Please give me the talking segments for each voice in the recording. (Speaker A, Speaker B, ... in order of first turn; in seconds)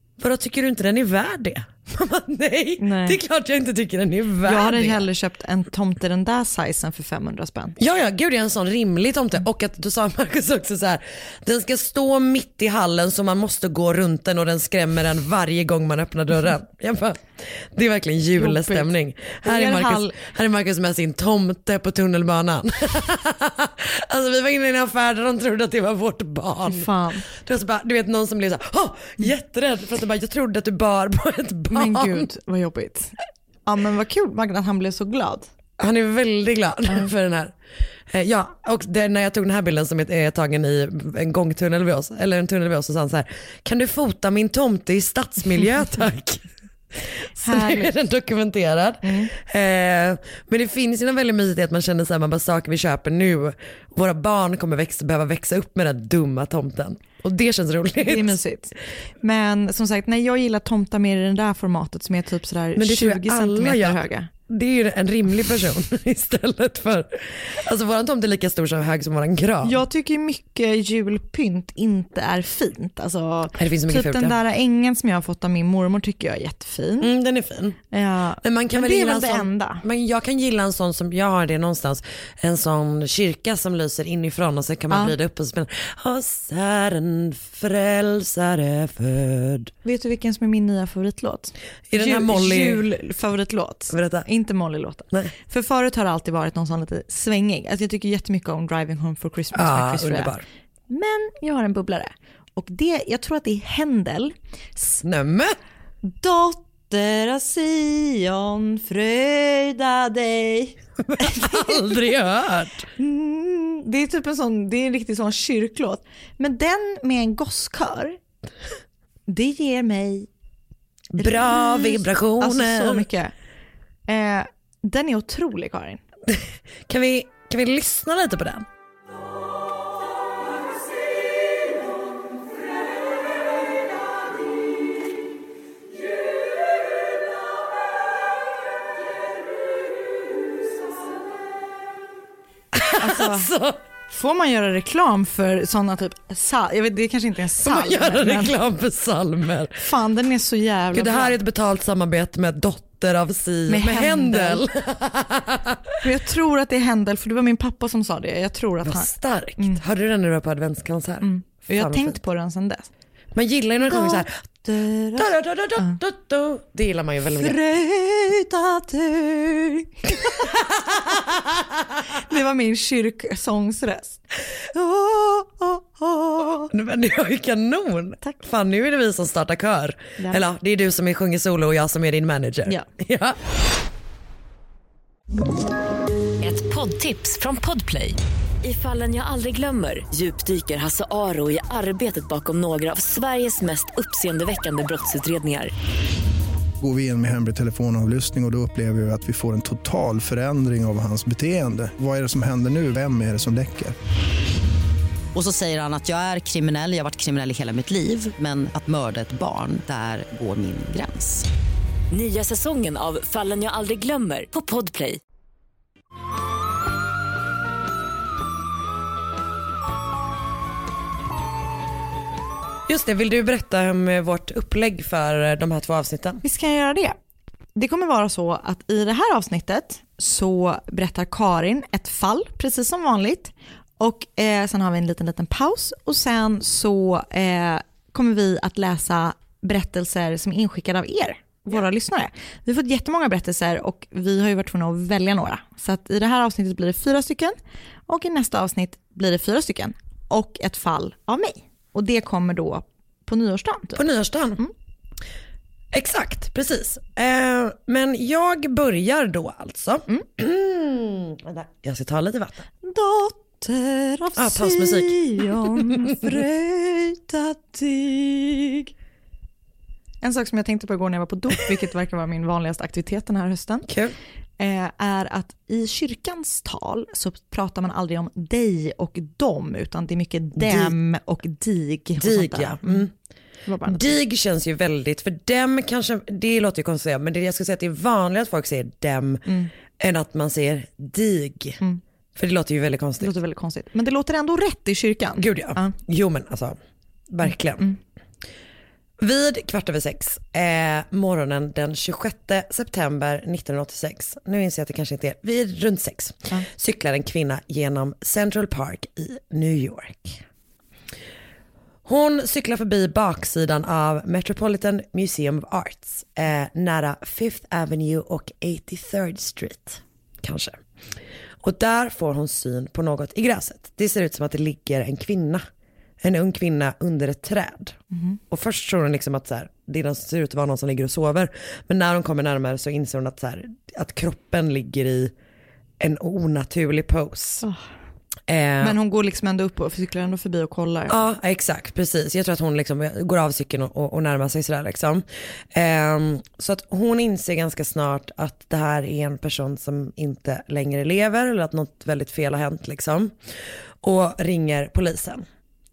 Speaker A: 0.2-5.0, 7.8-32.3, 35.8-37.5, 38.1-58.4, 62.7-69.8, 73.5-74.3, 77.0-77.8, 78.4-89.7, 91.9-92.8, 93.9-94.3, 99.5-100.4, 104.8-105.6, 111.0-112.9, 121.1-123.0, 126.3-128.7, 142.7-143.8, 147.6-149.8, 150.9-155.9, 158.8-162.2, 163.3-164.4, 165.2-167.6, 170.3-171.6, 176.7-183.4, 222.9-226.4, 253.9-254.6, 255.9-262.6, 264.4-266.1, 273.9-274.1, 280.6-280.9, 282.2-283.1, 283.8-289.4, 290.0-291.8, 292.4-293.3, 295.4-296.8, 297.3-297.9, 299.2-310.4, 312.0-320.8, 321.6-325.6, 326.2-327.9, 328.5-335.3, 336.0-337.6, 338.5-339.0, 341.1-353.3, 354.0-355.4
Speaker B: 2.8-3.2, 4.4-7.8, 18.4-18.9, 19.4-20.1, 26.6-27.2, 31.7-35.5, 47.4-47.9, 49.0-49.3, 58.0-64.3, 69.6-77.1, 77.9-79.8, 89.8-100.3, 100.9-104.3, 106.0-111.9, 113.0-118.2, 119.3-120.3, 121.2-123.3, 124.1-126.0, 142.9-143.5, 144.1-148.6, 149.8-151.3, 153.7-154.6, 156.0-159.8, 161.2-162.9, 163.9-165.9, 167.2-170.3, 172.1-174.2, 174.7-176.7, 226.4-227.2, 227.8-247.6, 248.1-254.0, 262.8-268.9, 270.2-273.9, 274.6-283.1, 283.6-284.1, 289.4-289.7, 293.2-295.9, 328.1-328.4, 337.6-337.9, 338.8-341.1
Speaker C: 186.4-195.7, 212.1-215.2
Speaker D: 196.8-203.9
Speaker E: 205.3-211.4